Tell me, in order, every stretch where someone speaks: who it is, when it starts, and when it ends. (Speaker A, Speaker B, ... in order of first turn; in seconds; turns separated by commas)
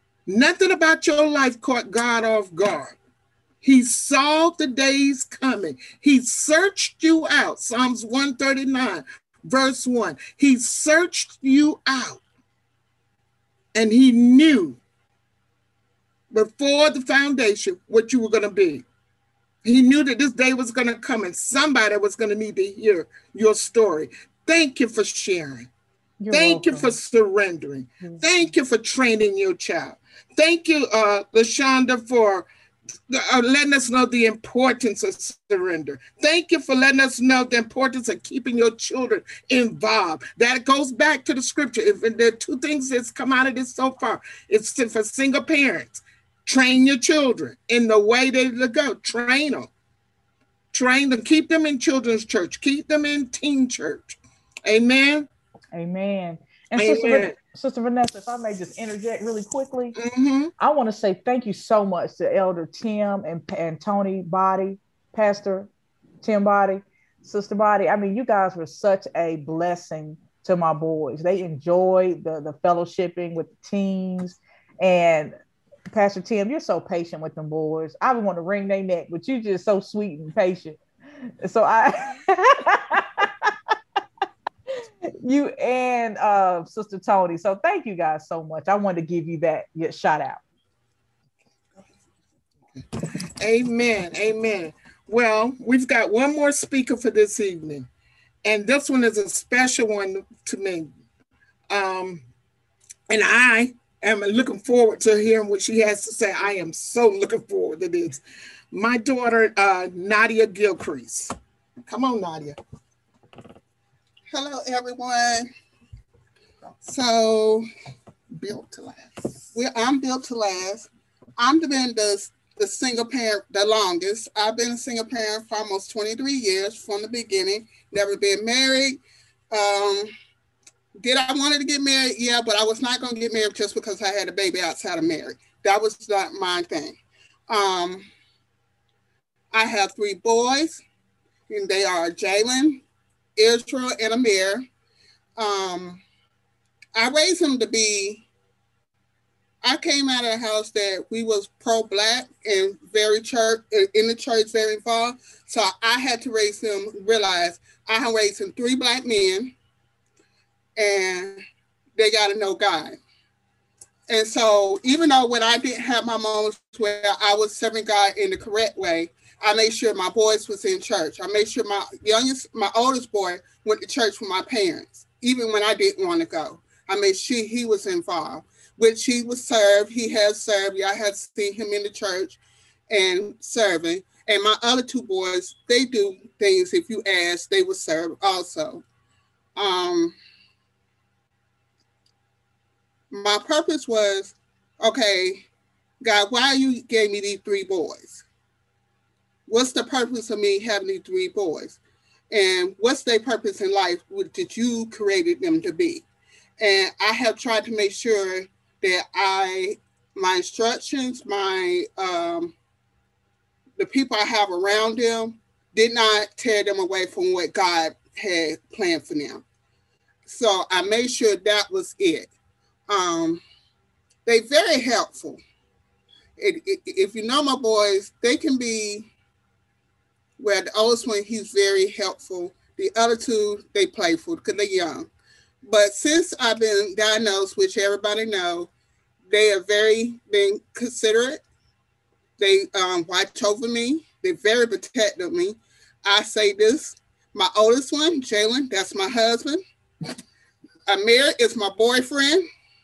Speaker A: 0.3-3.0, Speaker A: 3.6-12.2, Speaker A: 13.7-14.8, Speaker A: 16.3-18.8, Speaker A: 19.6-25.7, Speaker B: 26.2-26.9, Speaker A: 26.3-32.5, Speaker B: 28.0-28.5, Speaker A: 33.1-49.7, Speaker A: 50.7-55.3, Speaker B: 55.7-60.0, Speaker A: 56.8-57.4, Speaker A: 60.0-60.5, Speaker B: 60.6-65.7, Speaker B: 66.2-75.3, Speaker B: 75.9-80.8, Speaker B: 81.4-83.5, Speaker B: 85.2-90.4, Speaker A: 93.4-97.9, Speaker A: 98.4-100.9, Speaker A: 101.7-102.2, Speaker A: 103.1-108.2, Speaker A: 108.7-111.3, Speaker A: 111.9-112.5, Speaker C: 114.3-115.5, Speaker C: 116.8-117.6, Speaker A: 118.3-119.1, Speaker C: 119.5-130.1, Speaker C: 131.0-137.0, Speaker C: 137.5-138.1, Speaker C: 139.5-140.8, Speaker C: 141.5-142.8, Speaker C: 143.3-144.6, Speaker C: 145.4-146.0, Speaker C: 146.9-148.2, Speaker C: 149.6-159.5, Speaker C: 160.8-161.4, Speaker C: 161.9-163.0, Speaker C: 164.1-188.8, Speaker C: 189.5-190.1, Speaker C: 193.1-195.4, Speaker C: 196.0-198.2, Speaker C: 199.5-201.8, Speaker C: 202.3-206.0, Speaker C: 206.6-212.5, Speaker C: 213.8-219.4, Speaker C: 220.2-222.3, Speaker C: 222.9-223.4, Speaker C: 224.2-225.4, Speaker C: 226.4-229.1, Speaker C: 230.4-235.1, Speaker C: 235.6-238.7, Speaker C: 239.3-241.4, Speaker C: 242.4-249.6, Speaker C: 250.9-252.4